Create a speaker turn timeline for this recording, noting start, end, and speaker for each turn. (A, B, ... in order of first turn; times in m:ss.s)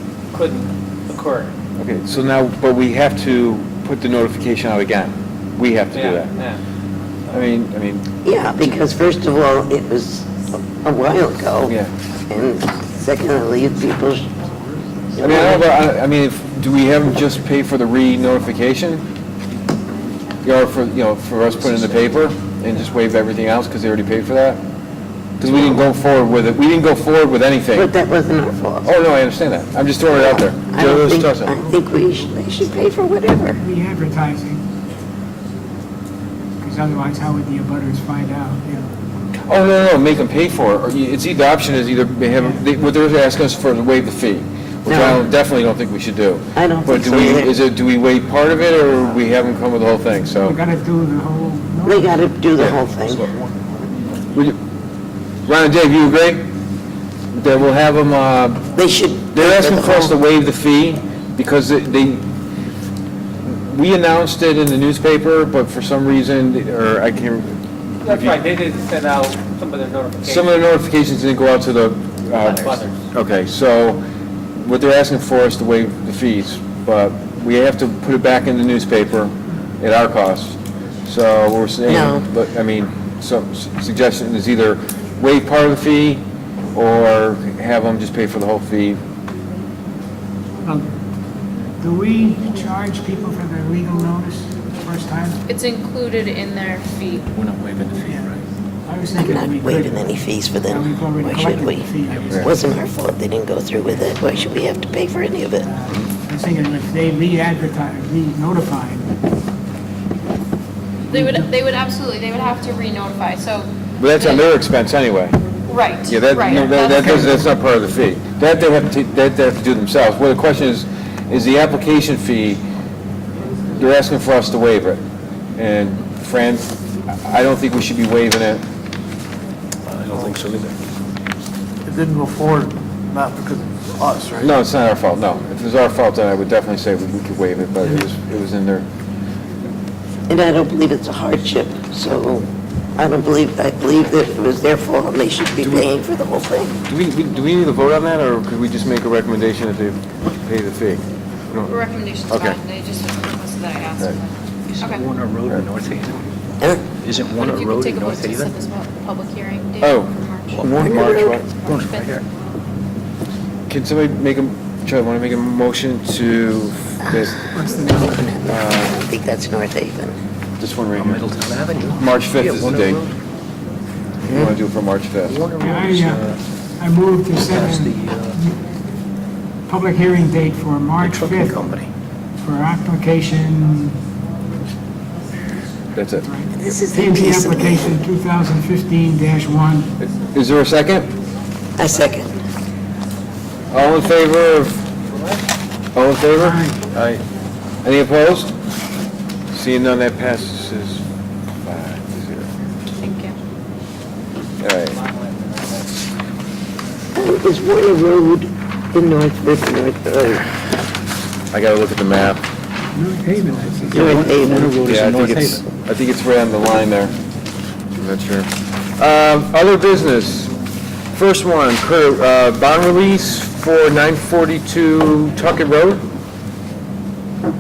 0:00.3-0:01.5 A
0:01.8-0:06.3 B
0:05.9-0:06.6 A
0:07.3-0:08.1 B
0:08.2-0:11.8 C
0:11.7-0:11.9 B
0:12.3-0:14.3 C
0:15.2-0:15.7 C
0:15.2-0:19.0 B
0:20.4-0:24.6 B
0:25.4-0:27.9 B
0:27.7-0:28.9 C
0:28.8-0:31.6 B
0:30.1-0:33.6 C
0:33.6-0:34.6 D
0:36.6-0:38.9 D
0:39.4-0:50.6 B
0:42.4-0:42.7 D
0:44.9-0:45.2 C
0:46.6-0:47.6 C
0:50.4-0:52.1 D
0:51.8-0:53.3 C
0:52.6-0:52.8 B
0:55.5-0:56.4 B
0:57.3-0:58.6 B
0:58.8-1:00.1 C
0:59.3-1:02.3 B
1:03.4-1:07.6 B
1:08.0-1:10.5 A
1:08.1-1:08.4 B
1:10.2-1:14.0 B
1:12.4-1:13.0 A
1:14.6-1:26.2 B
1:21.9-1:22.3 C
1:26.7-1:29.0 B
1:31.8-1:35.4 D
1:35.5-1:37.3 E
1:37.3-1:38.4 F
1:38.9-1:42.8 D
1:39.2-1:41.9 C
1:42.1-1:42.8 F
1:42.3-1:42.6 B
1:42.4-1:45.7 C
1:45.6-1:49.2 D
1:51.1-1:54.4 E
1:54.0-1:55.4 B
1:55.7-1:57.4 E
1:56.0-2:02.6 B
2:03.7-2:05.0 B
2:05.6-2:08.6 B
2:09.9-2:10.8 F
2:12.0-2:14.5 G
2:14.4-2:18.9 B
2:20.3-2:26.8 C
2:25.6-2:25.9 B
2:26.9-2:31.7 B
2:31.7-2:35.1 E
2:32.3-2:32.6 B
2:34.7-2:36.3 F
2:37.0-2:38.6 F
2:37.3-2:42.2 E
2:39.8-2:41.5 B
2:40.5-2:42.3 F
2:40.8-2:41.4 C
2:43.7-2:47.6 B
2:47.6-2:48.3 D
2:48.0-2:50.2 C
2:48.4-2:49.0 B
2:50.6-2:51.2 B
2:51.0-2:53.2 F
2:52.0-2:53.0 B
2:54.3-2:54.5 C
2:54.3-2:55.4 B
2:55.2-2:56.4 F
2:55.6-2:56.2 D
2:56.8-2:58.5 D
2:57.4-2:58.4 F
2:59.7-3:01.6 D
3:01.0-3:01.9 F
3:02.4-3:04.0 D
3:06.0-3:06.3 B
3:06.2-3:09.9 D
3:06.6-3:08.0 C
3:10.0-3:11.1 B
3:11.8-3:12.3 C
3:13.7-3:14.8 B
3:15.1-3:15.5 A
3:16.0-3:17.2 B
3:16.4-3:16.8 D
3:17.8-3:18.5 B
3:19.5-3:21.0 B
3:21.6-3:22.5 B
3:23.0-3:23.4 E
3:24.6-3:25.0 B
3:24.9-3:26.1 A
3:27.2-3:30.5 C
3:31.5-3:32.4 B
3:33.0-3:33.9 D
3:33.2-3:35.6 F
3:33.9-3:34.8 C
3:34.8-3:37.1 B
3:38.0-3:40.5 B
3:41.1-3:46.0 B